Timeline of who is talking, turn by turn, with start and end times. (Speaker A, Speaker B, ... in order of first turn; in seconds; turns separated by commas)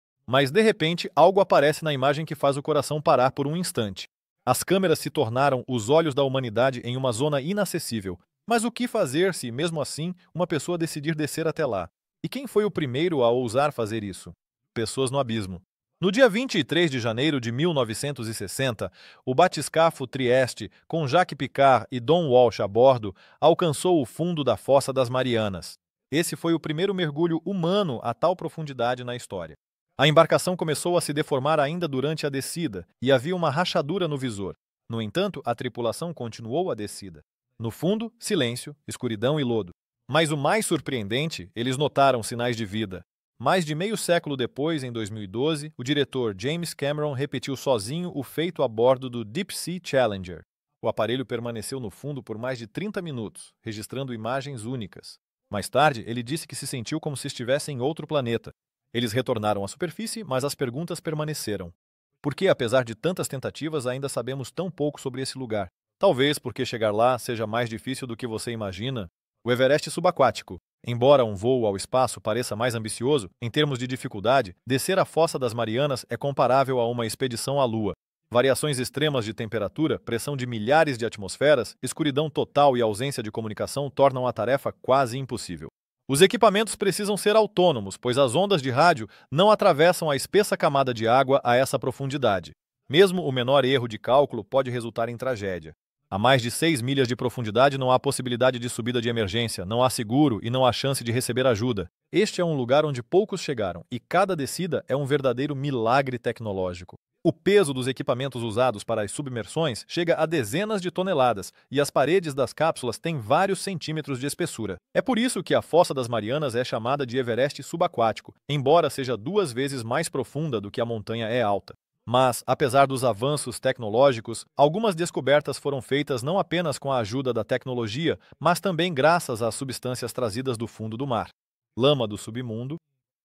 Speaker A: 0.3-132.8